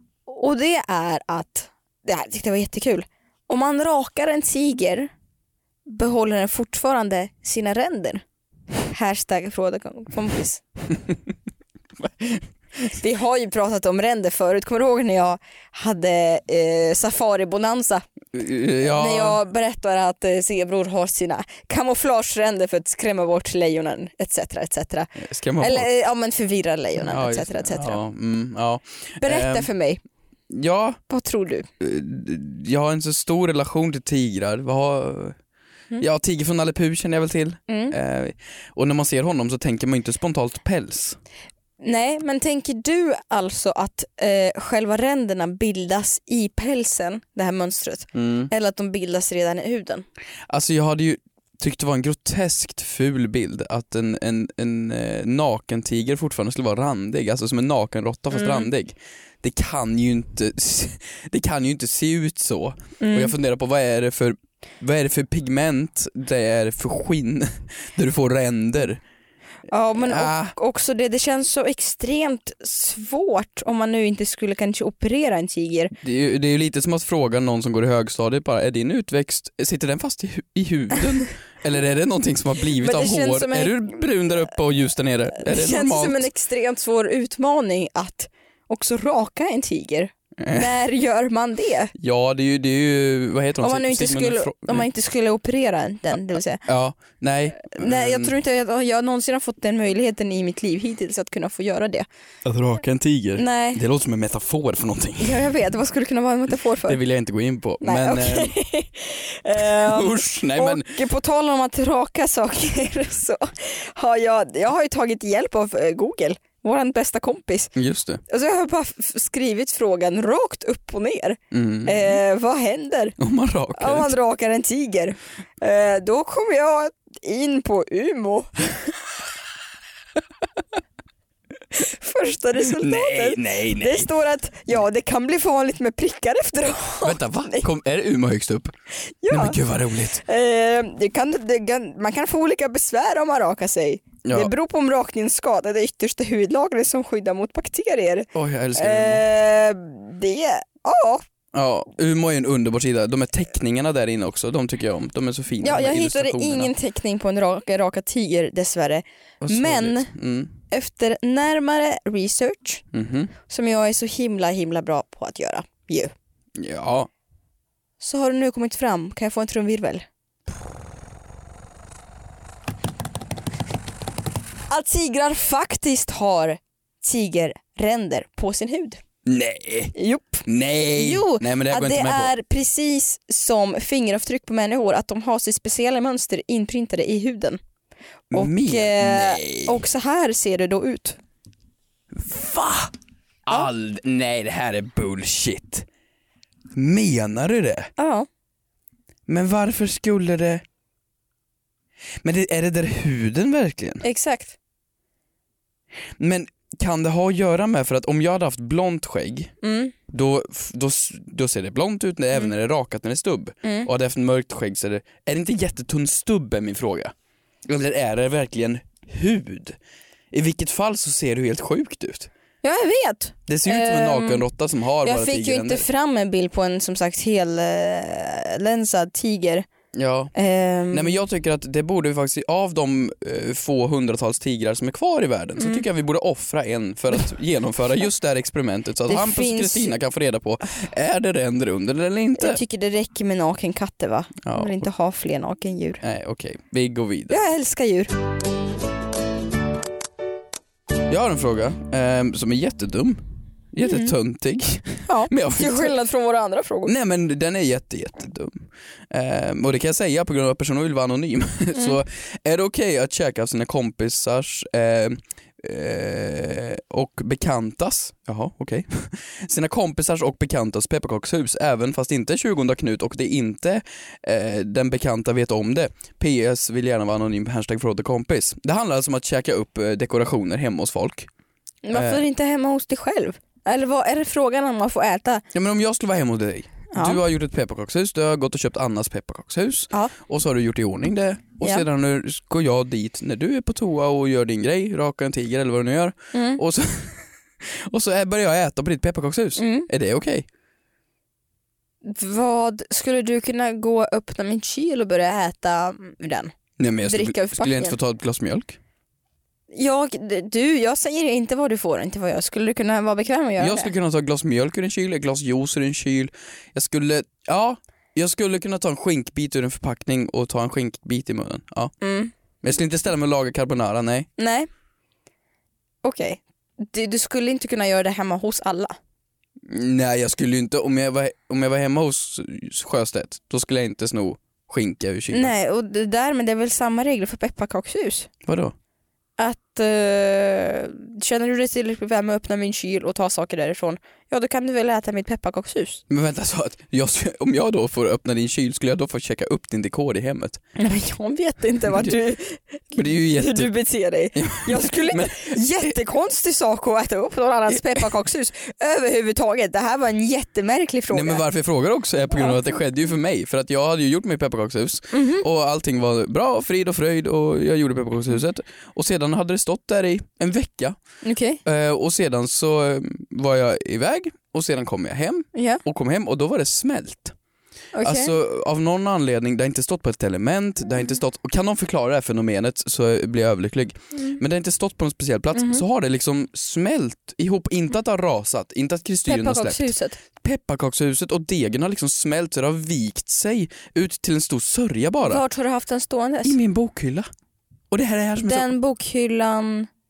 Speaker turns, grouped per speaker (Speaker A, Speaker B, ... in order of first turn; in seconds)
Speaker A: 0.3-5.1, 5.8-8.2, 8.9-10.6, 12.9-18.0, 18.8-28.0, 29.2-30.0, 31.1-31.7, 37.7-37.9, 41.8-50.0, 58.3-58.7, 63.0-63.3, 69.7-75.9, 82.8-84.0, 85.4-91.9, 93.6-96.6, 97.7-102.0, 103.4-103.8, 105.2-107.0, 107.8-117.7, 118.3-123.2, 123.8-128.9, 131.7-137.7, 139.2-139.6, 140.2-151.2, 155.6-160.1, 160.7-162.8, 163.5-166.1, 168.0-170.0, 174.7-179.0, 179.9-187.6, 188.3-191.2, 198.0-198.3, 204.0-204.6, 209.6-209.9, 213.6-213.9, 222.6-224.4, 225.0-229.7, 230.3-231.2, 235.6-235.8, 239.1-240.0, 242.4-246.0, 247.3-248.1, 253.8-254.1, 255.1-256.9, 281.8-285.4, 286.9-287.2, 291.6-291.9, 296.3-296.6, 299.6-299.9, 302.0-306.5, 307.0-307.9, 309.7-313.9, 322.0-322.3, 324.4-324.7, 326.0-328.9, 335.3-338.3, 339.4-346.0, 350.8-361.4, 362.4-362.6, 365.1-365.4, 371.2-371.6, 375.5-375.8, 377.9-378.3, 385.5-385.8, 389.3-390.2, 395.2-396.6, 398.4-399.9
Speaker B: 18.3-19.4, 25.1-25.9, 27.0-29.7, 30.5-31.0, 31.8-35.4, 36.0-41.2, 48.1-48.5, 50.5-69.0, 69.9-70.5, 76.0-86.3, 90.4-90.7, 91.9-94.9, 96.6-98.3, 102.4-105.5, 106.8-108.5, 109.5-111.0, 117.8-118.2, 121.5-122.2, 123.2-124.1, 132.6-134.1, 137.0-138.7, 139.3-140.2, 144.2-144.5, 148.3-149.3, 151.5-156.7, 159.4-160.5, 162.9-163.3, 166.6-167.1, 179.2-179.9, 180.4-182.3, 188.3-189.8, 192.1-192.9, 193.4-195.8, 196.7-197.9, 199.3-200.6, 202.2-204.0, 206.2-209.5, 210.1-217.1, 217.7-219.8, 220.3-222.3, 223.5-225.8, 229.9-230.3, 230.9-242.6, 244.4-244.8, 246.0-247.4, 251.1-256.0, 256.9-281.3, 281.9-282.2, 285.5-300.4, 306.8-308.8, 313.6-321.9, 322.6-324.3, 329.6-335.5, 338.4-338.7, 346.1-350.6, 352.9-353.7, 354.3-355.9, 357.7-358.0, 361.1-371.0, 371.6-377.3, 378.0-395.4, 396.4-397.3, 397.9-398.7